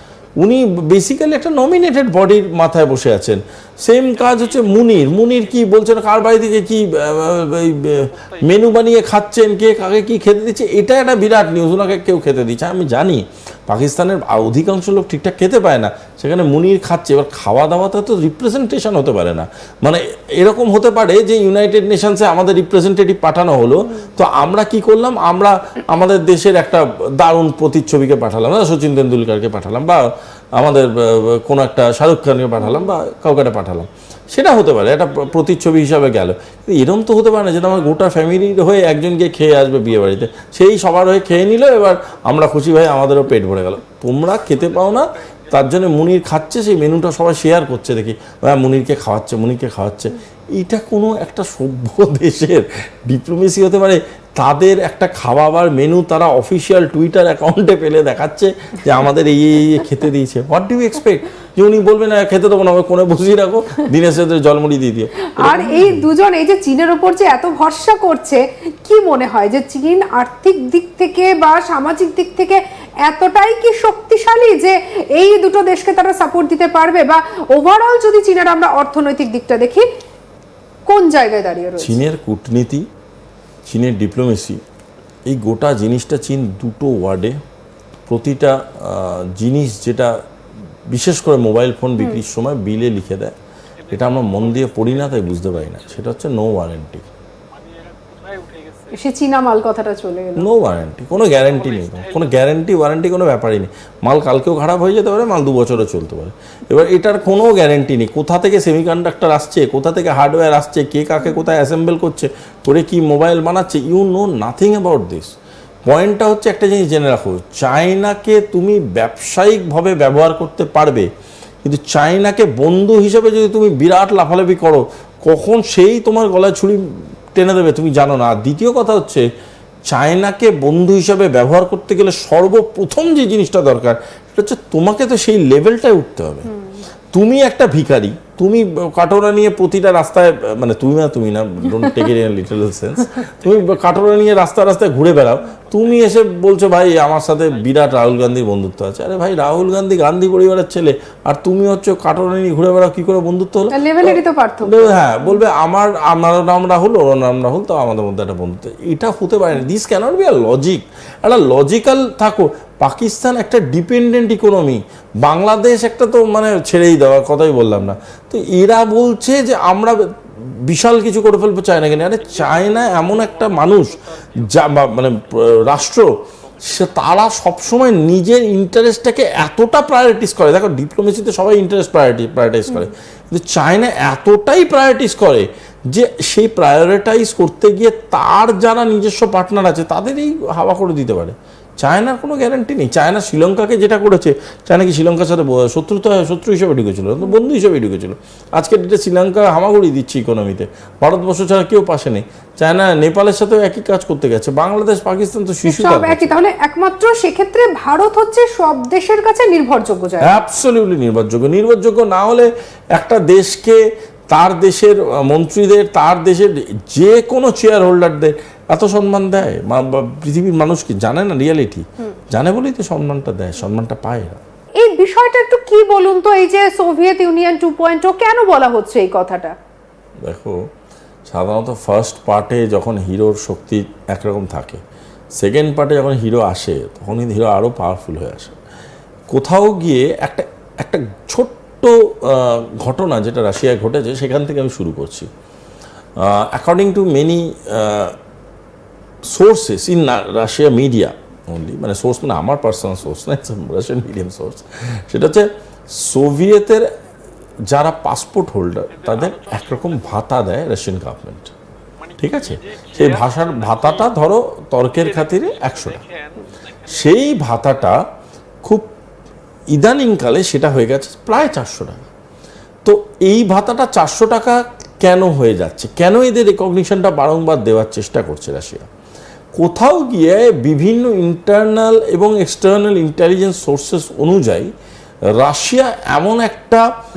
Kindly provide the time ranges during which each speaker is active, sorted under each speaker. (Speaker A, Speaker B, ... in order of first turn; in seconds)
Speaker A: 0.4-66.1, 81.8-82.8, 83.7-84.6, 85.3-87.3, 88.1-90.1, 90.9-93.3, 93.9-97.0, 100.4-115.3, 115.9-121.1, 121.6-126.8, 127.3-129.2, 129.9-136.5, 137.1-170.0, 170.6-206.4, 210.2-213.8, 214.3-224.4, 230.2-230.6, 231.3-234.8, 235.4-238.6, 239.3-245.3, 246.2-248.2, 249.2-256.9, 257.7-261.5, 262.2-266.0, 266.9-268.0, 268.6-268.9, 269.7-272.1, 272.8-278.9, 279.6-284.7, 285.4-286.9
Speaker B: 4.1-5.6, 8.1-8.9, 34.7-35.6, 37.5-39.0, 39.7-40.3, 44.2-47.6, 93.8-96.1, 97.5-99.0, 101.3-102.4, 143.4-144.1, 145.7-146.2, 146.9-148.4, 149.3-149.6, 172.0-177.3, 258.9-260.3, 262.0-264.2, 264.9-267.9
Speaker C: 23.8-24.1, 32.6-32.9, 65.4-79.9, 80.8-82.0, 98.9-100.5, 136.4-136.9, 141.8-142.1, 153.7-155.4, 205.6-210.4, 224.8-229.5